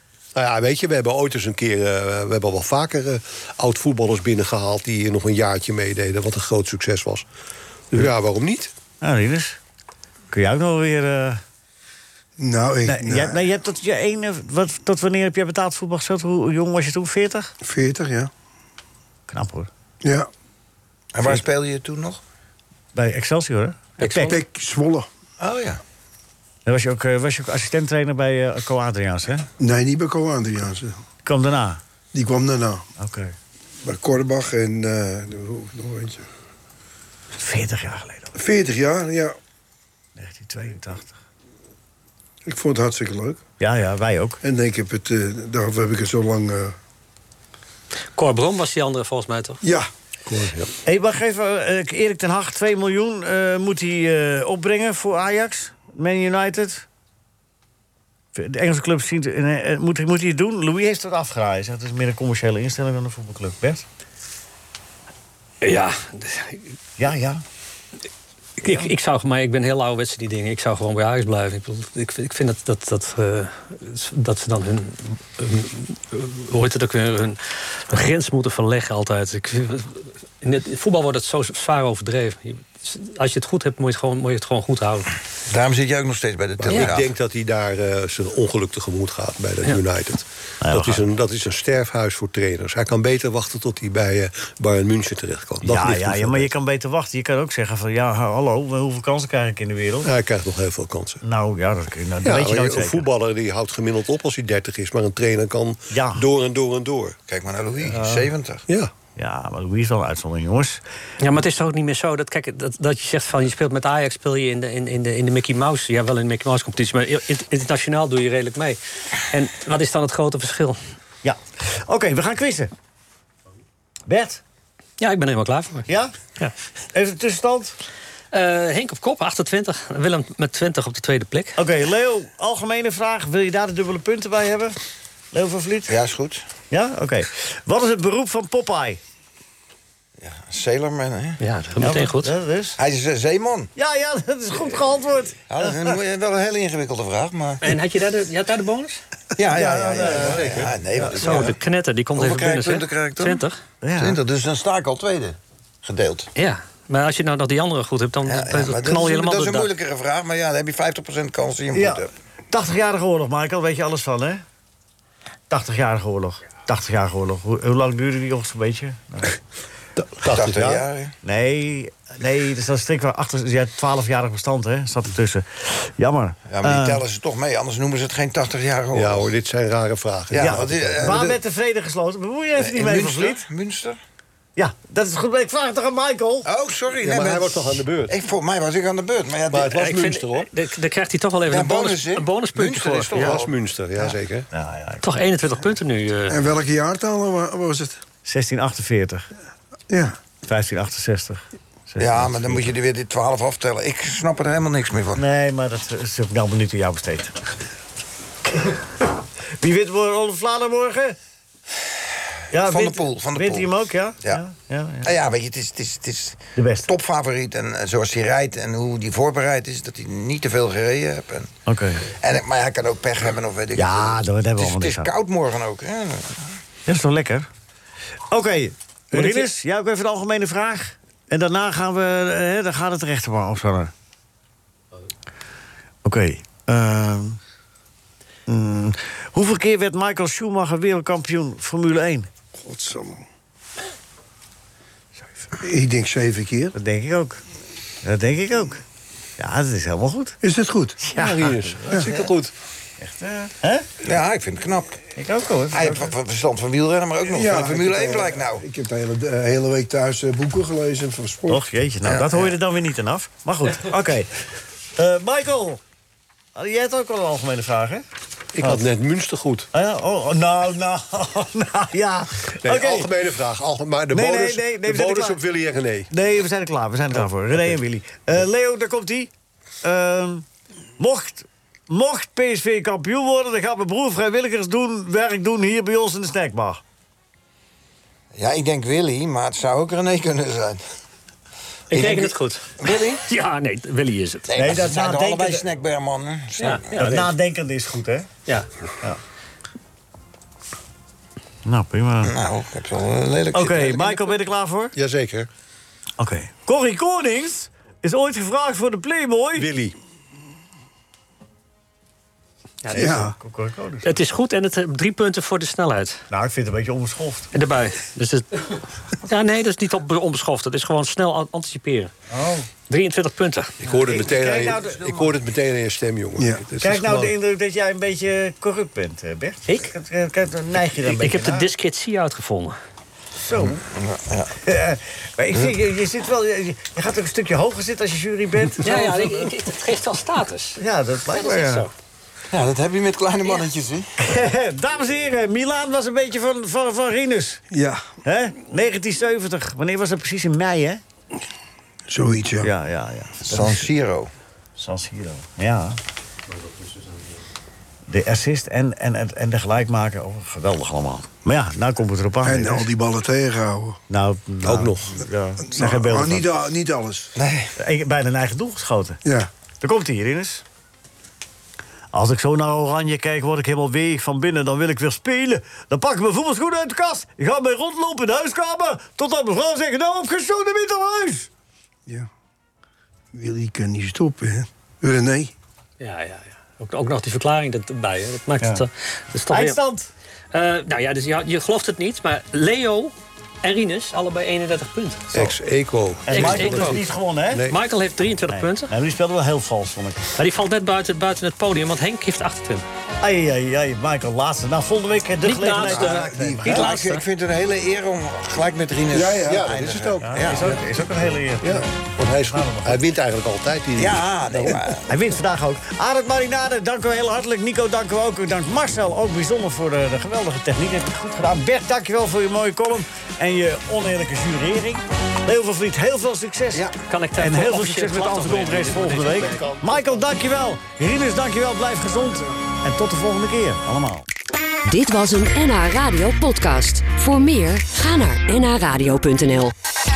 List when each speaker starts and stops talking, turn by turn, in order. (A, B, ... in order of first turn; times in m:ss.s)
0:00.4-0:07.3 A
0:07.9-0:08.7 A
0:09.0-0:09.6 B
0:10.3-0:11.4 B
0:12.4-0:13.4 C
0:12.8-0:17.5 B
0:17.6-0:18.3 C
0:19.3-0:19.7 B
0:20.0-0:20.3 C
0:21.1-0:22.2 D
0:22.9-0:24.4 B
0:24.0-0:24.4 E
0:24.2-0:25.1 C
0:25.4-0:25.8 D
0:26.7-0:29.5 B
0:29.6-0:31.0 C
0:31.2-0:31.8 B
0:32.1-0:32.9 C
0:33.0-0:33.3 B
0:33.8-0:36.2 C
0:37.4-0:38.3 B
0:38.4-0:39.4 C
0:40.2-0:41.1 B
0:42.5-0:43.4 C
0:43.6-0:44.4 B
0:44.4-0:46.8 C
0:48.2-0:49.6 E
0:50.3-0:50.7 A
0:50.9-0:56.9 B
0:58.4-1:03.9 B
1:05.6-1:06.6 E
1:07.0-1:07.4 B
1:08.6-1:25.1 E
1:25.5-1:27.1 D
1:26.6-1:36.5 A
1:26.7-1:27.0 E
1:30.6-1:31.0 B
1:35.6-1:40.1 B
1:40.0-1:41.2 A
1:41.2-1:43.1 B
1:42.2-1:47.2 A
1:45.9-1:46.2 B
1:47.3-1:48.6 D
1:49.2-1:50.8 B
1:51.2-1:58.8 E
1:59.3-2:00.8 E
2:01.2-2:02.7 B
2:04.1-2:04.4 B
2:05.0-2:05.9 E
2:05.9-2:06.1 B
2:06.9-2:07.7 B
2:08.3-2:11.6 E
2:11.6-2:14.8 B
2:15.3-2:16.0 B
2:15.9-2:16.4 D
2:16.7-2:19.0 B
2:20.2-2:21.4 D
2:21.4-2:22.3 E
2:21.8-2:22.8 B
2:22.8-2:23.7 D
2:23.8-2:26.0 B
2:25.5-2:27.7 D
2:27.6-2:29.0 E
2:29.4-2:31.6 D
2:29.6-2:30.5 B
2:29.6-2:30.2 C
2:30.2-2:30.7 A
2:31.1-2:33.6 E
2:32.2-2:33.4 D
2:33.8-2:34.2 B
2:34.0-2:36.3 D
2:36.4-2:39.7 E
2:38.2-2:42.1 D
2:41.7-2:44.4 B
2:45.5-2:49.4 B
2:50.0-2:50.8 A
2:50.3-2:51.1 D
2:51.2-2:57.0 B
2:56.5-2:59.3 D
2:58.9-3:01.2 A
3:00.3-3:01.4 D
3:00.4-3:03.4 B
3:02.6-3:04.0 D
3:04.6-3:06.5 B
3:06.4-3:09.8 D
3:07.0-3:08.1 A
3:09.5-3:10.5 A
3:09.8-3:13.4 E
3:11.5-3:13.5 D
3:13.1-3:14.5 A
3:14.5-3:15.0 B
3:15.0-3:16.4 E
3:16.3-3:18.0 C
3:18.2-3:19.3 B
3:19.9-3:20.2 C
3:20.4-3:22.7 B
3:22.0-3:25.2 D
3:25.2-3:27.4 B
3:28.5-3:28.8 B
3:29.6-3:31.2 B
3:32.5-3:33.7 D
3:32.5-3:35.1 B
3:35.0-3:41.5 D
3:36.6-3:36.9 B
3:41.7-3:42.1 B
3:42.1-3:46.6 D
3:43.8-3:45.1 B
3:46.9-3:47.5 B
3:48.3-3:53.9 B
3:49.1-3:49.5 E
3:56.0-3:57.4 B
3:58.5-4:02.3 B
4:02.6-4:03.2 C
4:05.6-4:06.8 C
4:06.8-4:07.4 B
4:08.0-4:08.8 B
4:09.4-4:10.4 B
4:10.4-4:11.0 C
4:11.0-4:12.3 B
4:11.1-4:12.5 A
4:13.0-4:13.9 B
4:14.0-4:15.0 D
4:15.2-4:16.1 B
4:15.7-4:18.6 D
4:17.3-4:21.6 C
4:21.5-4:24.3 B
4:22.0-4:22.6 D
4:25.0-4:25.8 B
4:26.6-4:28.0 B
4:28.6-4:29.7 A
4:29.7-4:33.1 B
4:32.6-4:36.1 A
4:34.1-4:35.4 B
4:36.1-4:39.3 B
4:39.8-4:40.4 B
4:41.0-4:46.8 B
4:48.4-4:50.8 D
4:51.9-4:54.5 E
4:51.9-4:53.2 D
4:54.5-4:57.1 D
4:54.5-4:55.7 B
4:56.6-4:57.3 E
4:56.9-4:58.3 B
5:01.6-5:02.3 B
5:02.2-5:04.2 D
5:03.5-5:05.0 B
5:05.0-5:05.5 A
5:06.2-5:09.7 B
5:09.6-5:10.0 A
5:12.8-5:13.3 E
5:12.9-5:14.1 B
5:12.9-5:13.4 C
5:14.0-5:16.2 E
5:16.3-5:17.5 B
5:17.5-5:18.6 E
5:19.2-5:22.1 E
5:22.3-5:22.7 B
5:22.9-5:23.8 E
5:23.8-5:27.3 A
5:24.1-5:25.3 B
5:26.4-5:26.6 C
5:26.8-5:31.7 B
5:29.7-5:29.9 E
5:31.0-5:32.8 E
5:33.4-5:33.8 B
5:33.6-5:34.6 D
5:34.6-5:39.2 B
5:38.8-5:40.8 E
5:40.8-5:41.9 B
5:41.3-5:41.9 E
5:42.5-5:44.1 D
5:44.2-5:47.6 B
5:47.7-5:48.0 C
5:48.2-5:51.0 B
5:52.1-5:52.7 C
5:52.6-5:53.8 B
5:53.4-5:54.3 D
5:54.8-5:56.0 B
5:58.1-6:02.9 B
6:02.4-6:04.0 C
6:04.1-6:06.5 B
6:04.6-6:05.2 A
6:05.7-6:07.3 C
6:07.4-6:07.7 D
6:07.8-6:09.2 B
6:09.8-6:10.6 B
6:12.1-6:21.5 B
6:23.3-6:25.5 C
6:26.0-6:29.8 E
6:29.5-6:30.1 B
6:30.5-6:35.5 E
6:35.3-6:37.0 A
6:36.3-6:37.6 B
6:36.3-6:37.0 E
6:37.5-6:37.8 A
6:37.7-6:38.9 E
6:38.5-6:40.3 B
6:40.4-6:42.8 E
6:43.2-6:47.0 B
6:45.4-6:47.2 E
6:45.8-6:46.8 C
6:46.6-6:50.8 D
6:49.1-6:49.7 C
6:49.5-6:50.8 A
6:50.2-6:53.0 B
6:51.6-6:54.8 A
6:54.0-6:55.1 D
6:55.1-7:14.2 B
7:07.0-7:09.9 E
7:14.9-7:19.7 F